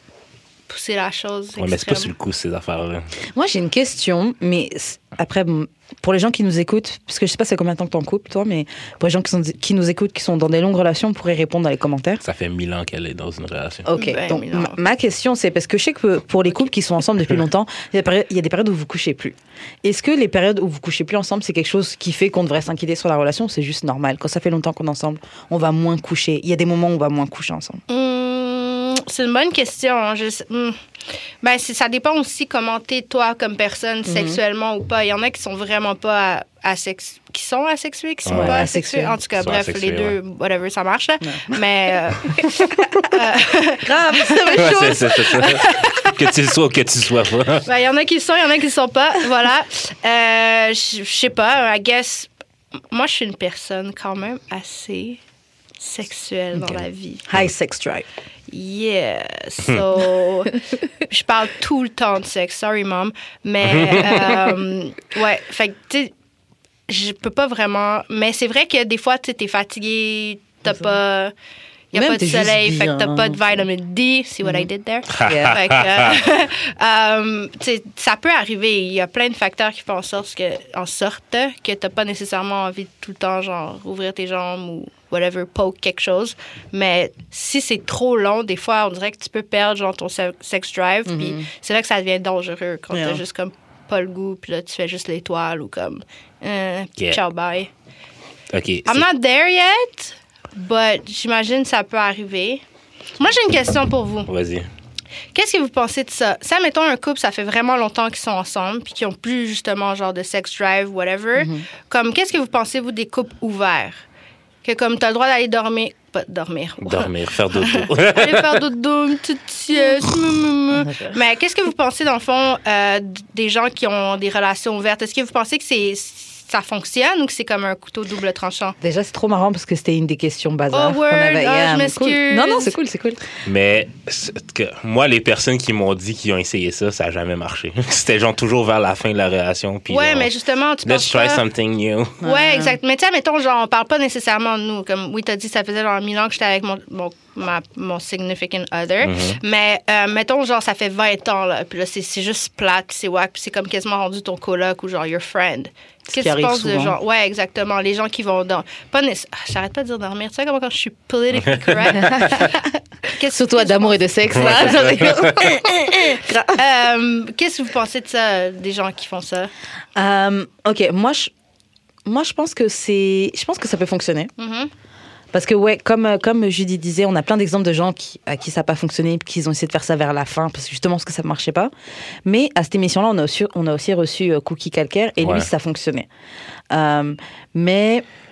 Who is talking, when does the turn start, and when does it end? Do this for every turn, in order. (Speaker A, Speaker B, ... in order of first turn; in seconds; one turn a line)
Speaker A: 0.7-2.1
Speaker B: 1.6-3.1
Speaker C: 3.3-12.2
Speaker B: 12.2-13.9
Speaker C: 13.8-27.8
Speaker A: 13.9-14.8
Speaker A: 27.9-30.8
Speaker A: 31.4-46.2
Speaker C: 34.0-34.4
Speaker B: 38.2-38.6
Speaker C: 38.3-39.2
Speaker B: 39.4-40.1
Speaker C: 41.2-41.6
Speaker C: 42.2-43.2
Speaker C: 43.8-45.0
Speaker B: 44.5-47.7
Speaker A: 47.6-52.3
Speaker A: 52.9-55.2
Speaker A: 55.8-57.2
Speaker C: 57.3-58.0
Speaker A: 58.5-66.1
Speaker B: 63.6-64.2
Speaker A: 66.9-71.3
Speaker A: 71.9-97.7
Speaker C: 71.9-73.6
Speaker B: 75.1-76.2
Speaker C: 75.2-75.6
Speaker C: 91.0-91.5
Speaker C: 92.9-93.2
Speaker B: 98.5-99.0
Speaker A: 98.8-102.6
Speaker A: 103.2-104.3
Speaker B: 104.3-104.7
Speaker A: 105.3-114.0
Speaker C: 111.4-111.7
Speaker A: 114.6-128.8
Speaker B: 116.8-118.6
Speaker C: 120.7-121.2
Speaker C: 128.8-133.2
Speaker A: 130.7-132.7
Speaker B: 133.4-140.3
Speaker A: 139.9-141.4
Speaker B: 140.8-142.2
Speaker C: 142.2-142.8
Speaker A: 142.2-164.9
Speaker B: 149.0-149.4
Speaker C: 156.1-156.9
Speaker B: 161.5-161.9
Speaker C: 161.9-162.6
Speaker C: 163.2-166.6
Speaker B: 164.3-165.6
Speaker A: 165.8-169.5
Speaker C: 169.9-171.3
Speaker C: 172.0-174.3
Speaker A: 174.4-174.7
Speaker C: 175.3-181.7
Speaker C: 182.2-186.1
Speaker B: 185.2-185.5
Speaker C: 186.7-188.0